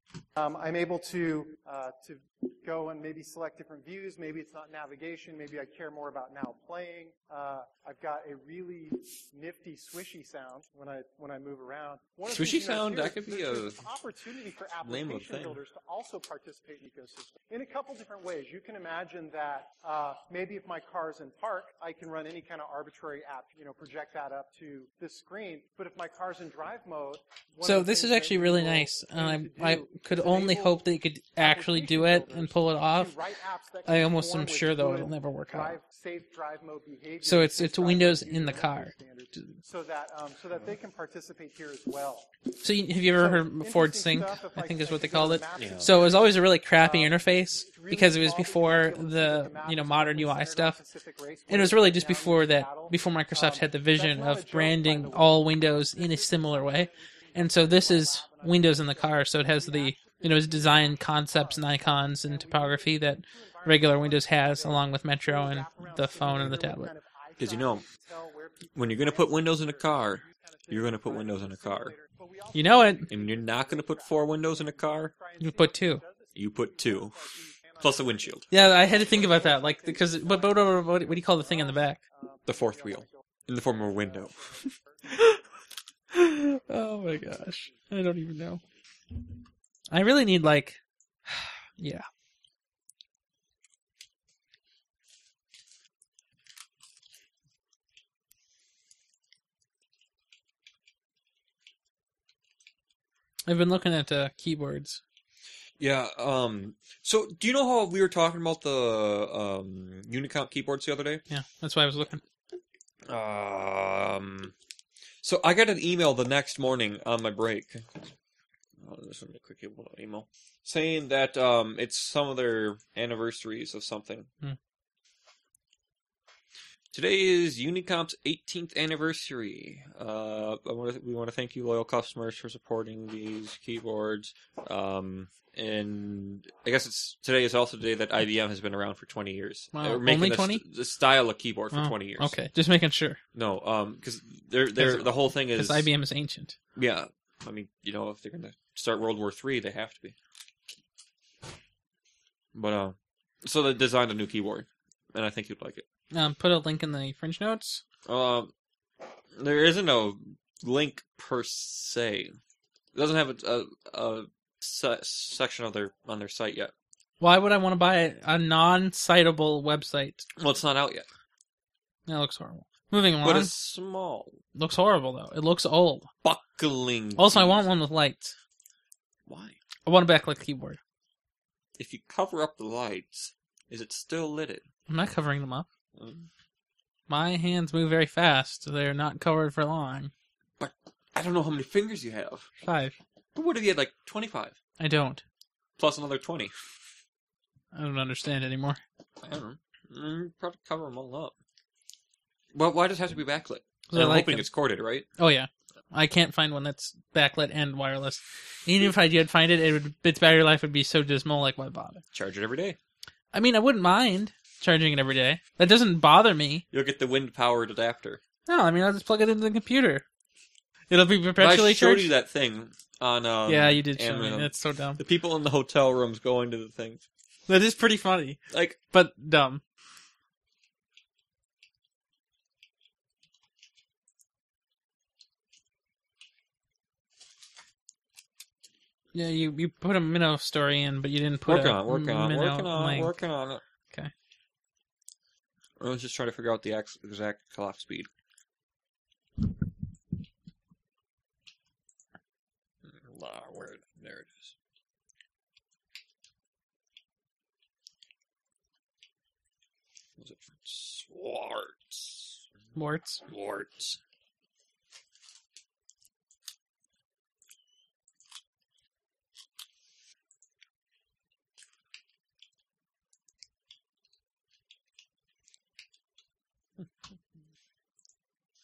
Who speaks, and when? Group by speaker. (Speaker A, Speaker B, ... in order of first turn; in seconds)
Speaker A: 0.3-30.8, 31.4-42.3, 43.1-85.5, 87.1-87.9
Speaker B: 12.3-13.8, 14.8-15.6, 45.5-45.9, 67.4-67.8, 68.7-72.0, 73.1-75.1, 76.3-78.5, 82.5-84.4, 105.8-111.2, 113.1-114.5, 115.2-118.1, 118.8-124.3, 126.9-142.3, 143.3-145.9, 146.8-150.1, 152.5-155.8, 158.1-158.5, 159.3-162.4, 162.9-166.7, 170.4-171.1, 173.2-174.4, 176.2-177.7, 179.3-179.6, 181.8-184.6, 185.9-186.3, 190.6-192.5, 193.3-194.6, 195.8-196.5, 199.2-201.3, 202.5-205.1, 212.1-212.8, 216.7-218.2, 221.4-227.0, 228.5-228.8, 241.5-243.6, 245.8-248.1, 252.8-254.5, 260.2-262.4, 263.3-264.0
Speaker C: 27.6-33.2, 33.9-35.8, 37.2-39.5, 42.6-50.8, 51.5-66.9, 72.5-73.1, 75.4-76.0, 78.5-82.0, 85.1-85.4, 86.1-88.6, 89.9-92.0, 103.5-105.0, 111.3-112.2, 139.7-140.6, 141.7-143.2, 144.8-146.6, 156.1-157.8, 167.2-170.2, 172.1-173.5, 174.5-176.1, 177.2-178.3, 179.8-180.8, 184.9-185.7, 187.1-190.1, 192.6-192.9, 194.8-195.2, 197.7-198.8, 203.9-204.5, 205.2-212.0, 213.3-216.7, 218.4-220.0, 220.9-222.1, 223.5-225.0, 227.5-229.6, 239.1-243.1, 262.7-263.2